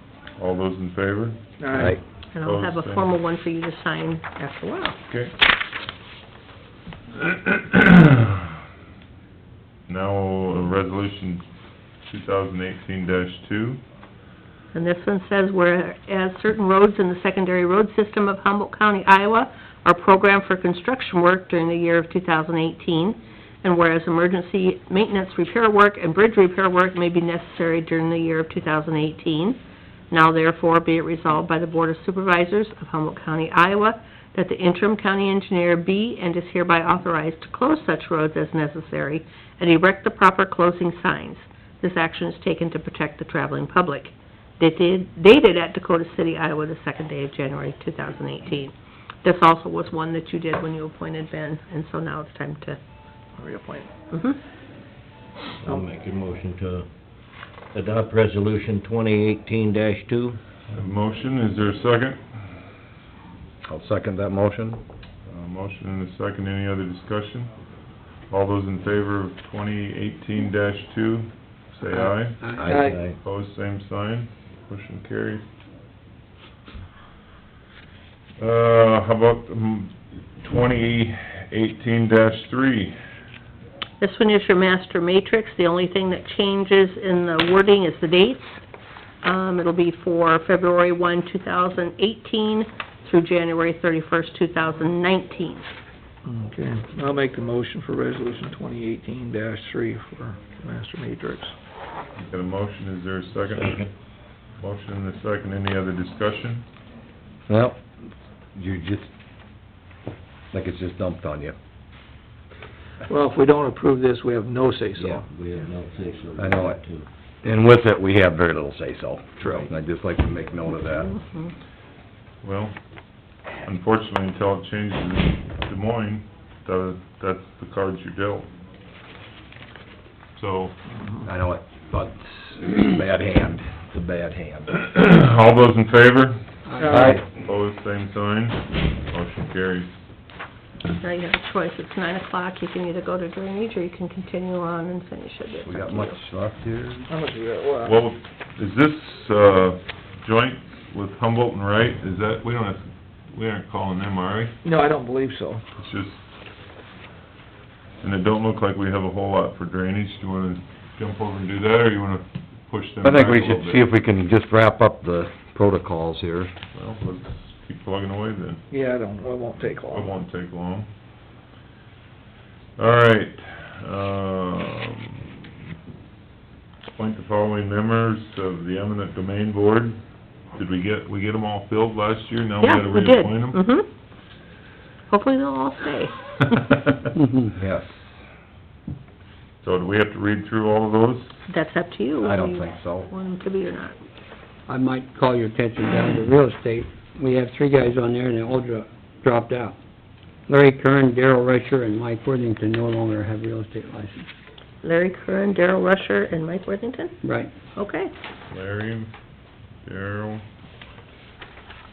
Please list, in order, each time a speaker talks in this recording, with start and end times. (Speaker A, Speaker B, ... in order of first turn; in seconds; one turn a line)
Speaker A: 0.3-1.4
Speaker B: 1.6-2.0
Speaker C: 1.7-2.0
Speaker D: 2.3-5.0
Speaker A: 2.4-3.1
Speaker A: 5.1-5.3
Speaker A: 7.3-8.2
Speaker A: 9.9-11.4
Speaker A: 12.1-13.8
Speaker D: 14.7-29.6
Speaker D: 30.1-48.7
Speaker D: 49.2-52.8
Speaker B: 53.4-53.9
Speaker D: 54.1-54.4
Speaker E: 55.6-56.9
Speaker E: 57.7-60.4
Speaker A: 60.7-62.2
Speaker C: 63.6-64.8
Speaker A: 65.3-67.5
Speaker A: 68.3-75.4
Speaker F: 71.9-72.8
Speaker C: 72.6-72.9
Speaker B: 72.7-73.0
Speaker E: 72.8-73.2
Speaker A: 78.4-83.0
Speaker D: 84.0-88.6
Speaker D: 89.2-95.7
Speaker B: 96.2-101.5
Speaker A: 102.2-103.8
Speaker E: 103.6-103.9
Speaker A: 104.6-106.6
Speaker C: 107.5-107.8
Speaker C: 108.5-109.1
Speaker C: 110.5-111.5
Speaker B: 113.0-115.2
Speaker E: 115.0-117.1
Speaker C: 116.4-116.8
Speaker C: 117.4-121.2
Speaker D: 121.0-121.5
Speaker A: 122.4-122.7
Speaker A: 123.6-128.5
Speaker A: 130.3-130.7
Speaker B: 130.9-131.3
Speaker C: 131.2-134.7
Speaker A: 134.7-139.9
Speaker F: 136.7-137.0
Speaker B: 136.8-137.2
Speaker C: 136.9-137.2
Speaker D: 141.0-146.1
Speaker C: 145.6-147.1
Speaker B: 147.1-148.0
Speaker A: 147.8-154.6
Speaker B: 154.6-155.6
Speaker A: 155.7-156.2
Speaker A: 158.0-163.8
Speaker C: 163.0-166.5
Speaker A: 166.7-168.6
Speaker B: 168.7-170.1
Speaker A: 169.9-170.9
Speaker A: 172.8-175.3
Speaker A: 176.8-180.0
Speaker A: 180.5-183.6
Speaker D: 182.6-183.9
Speaker D: 185.1-186.6
Speaker A: 186.5-187.1
Speaker F: 187.2-187.5
Speaker C: 187.5-188.0
Speaker A: 189.6-191.4
Speaker D: 191.5-193.9
Speaker C: 192.2-193.1
Speaker F: 194.7-199.7
Speaker F: 200.5-204.3
Speaker D: 204.8-207.2
Speaker F: 207.2-207.5
Speaker D: 207.7-208.1
Speaker A: 208.5-209.1
Speaker A: 209.8-210.4